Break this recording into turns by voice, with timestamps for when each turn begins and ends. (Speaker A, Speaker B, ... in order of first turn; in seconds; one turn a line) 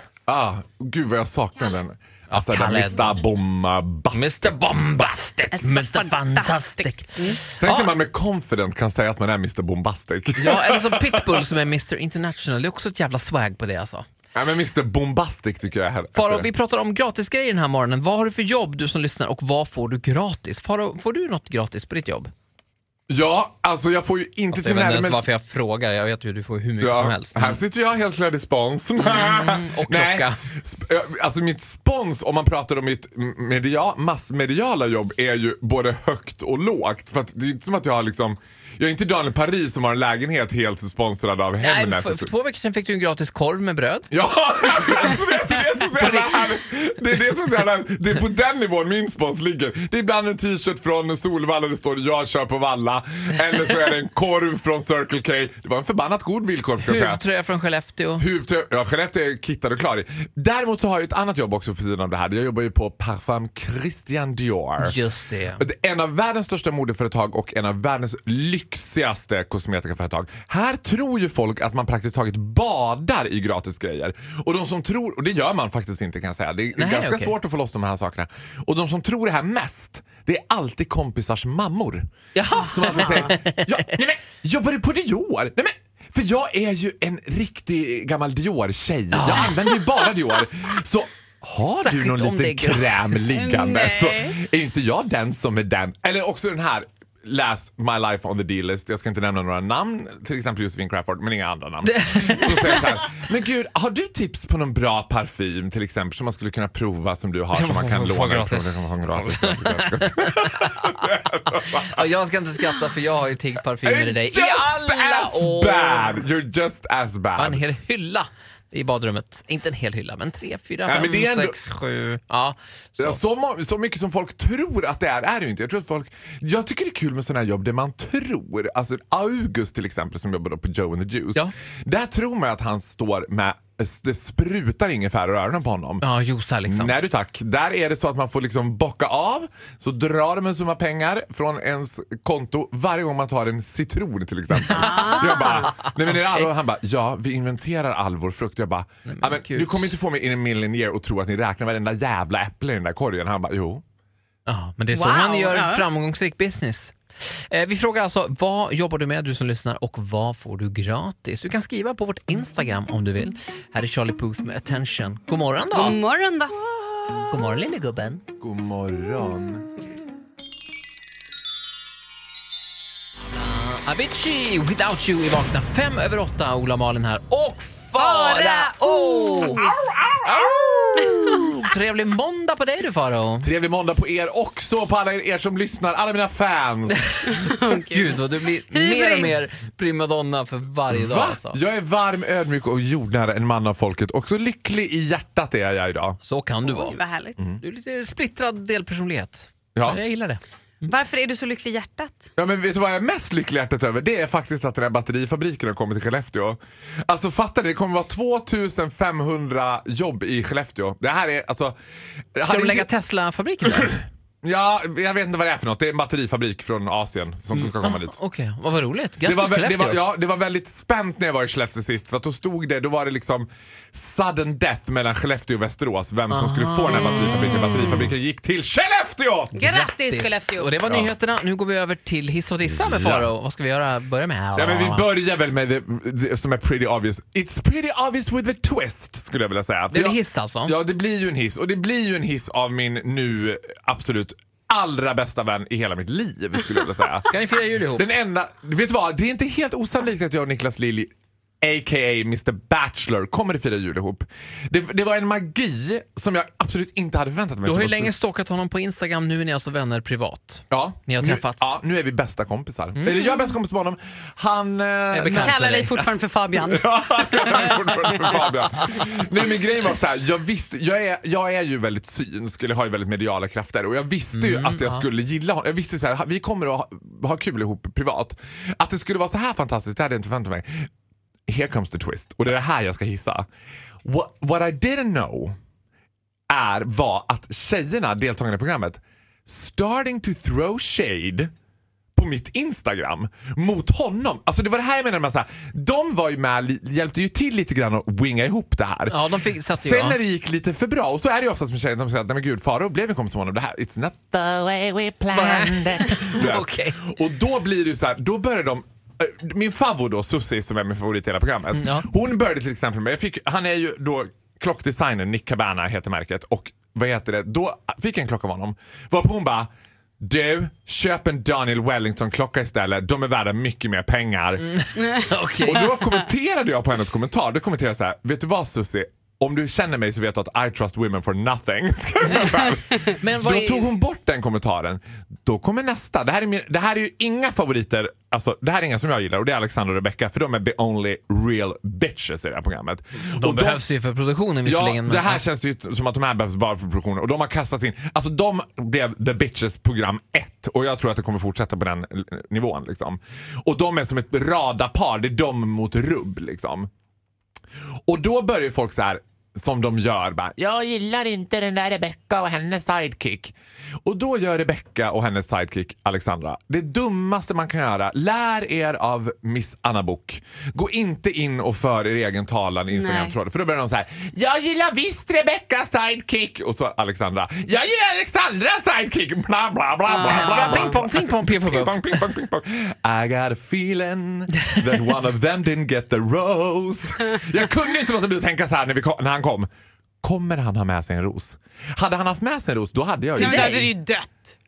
Speaker A: 0.3-4.6
Speaker B: 2.3-3.2
Speaker B: 4.1-8.0
Speaker C: 5.5-7.4
Speaker A: 7.5-11.4
Speaker B: 10.3-14.1
Speaker A: 14.3-16.5
Speaker B: 16.1-22.3
Speaker A: 23.1-25.3
Speaker B: 24.5-27.6
Speaker A: 26.8-42.3
Speaker B: 29.0-30.4
Speaker B: 41.6-44.1
Speaker A: 44.1-57.2
Speaker B: 44.7-45.2
Speaker B: 45.7-46.6
Speaker B: 56.8-58.2
Speaker A: 58.2-65.0
Speaker B: 64.8-65.6
Speaker A: 65.6-82.1
Speaker B: 76.7-77.3
Speaker B: 82.3-83.9
Speaker A: 82.6-112.1
Speaker C: 82.8-83.3
Speaker B: 89.1-89.6
Speaker B: 91.8-93.2
Speaker C: 93.3-94.4
Speaker B: 101.8-103.0
Speaker B: 107.5-116.2
Speaker A: 113.8-117.6
Speaker B: 117.4-123.2
Speaker A: 120.8-121.6
Speaker A: 123.0-136.0
Speaker B: 136.0-137.0
Speaker A: 136.7-153.8
Speaker C: 144.7-145.7
Speaker B: 144.7-146.5
Speaker B: 149.1-149.9
Speaker B: 154.4-166.0
Speaker C: 154.9-155.8
Speaker C: 165.7-166.5
Speaker B: 167.2-168.2
Speaker A: 168.4-169.7
Speaker B: 173.3-179.7
Speaker C: 178.0-179.7
Speaker A: 179.6-180.5
Speaker B: 180.3-183.5
Speaker C: 181.0-181.3
Speaker A: 183.4-187.1
Speaker C: 187.3-189.4
Speaker B: 187.7-191.6
Speaker A: 190.9-196.2
Speaker B: 196.2-200.4
Speaker C: 196.7-197.4
Speaker A: 199.7-200.0
Speaker C: 200.9-202.3
Speaker A: 202.4-211.8
Speaker A: 212.3-212.9
Speaker B: 212.4-214.0
Speaker A: 213.7-218.2
Speaker B: 217.5-220.0
Speaker A: 219.2-229.6
Speaker B: 226.3-228.1
Speaker C: 226.9-227.9
Speaker B: 229.5-235.1
Speaker C: 229.6-230.7
Speaker A: 230.8-231.1
Speaker A: 232.7-233.3
Speaker A: 234.5-247.3
Speaker B: 239.9-240.8
Speaker B: 247.3-248.1
Speaker A: 247.9-251.1
Speaker A: 251.6-258.1
Speaker B: 257.6-261.8
Speaker A: 260.7-280.9
Speaker B: 262.9-263.4
Speaker B: 265.1-266.1
Speaker C: 265.3-268.6
Speaker B: 274.3-275.1
Speaker A: 281.5-283.5
Speaker A: 284.0-285.6
Speaker A: 286.5-291.5
Speaker A: 292.1-319.7
Speaker B: 299.1-300.2
Speaker B: 305.3-307.0
Speaker B: 311.7-312.1
Speaker A: 320.2-324.8
Speaker C: 324.9-326.1
Speaker B: 325.1-325.9
Speaker A: 325.6-343.8
Speaker B: 333.2-334.0
Speaker B: 343.3-345.4
Speaker A: 344.6-356.9
Speaker A: 358.1-389.7
Speaker C: 372.9-373.3
Speaker C: 380.1-380.9
Speaker B: 380.2-382.3
Speaker A: 390.2-393.8
Speaker B: 393.4-393.9
Speaker C: 393.4-394.5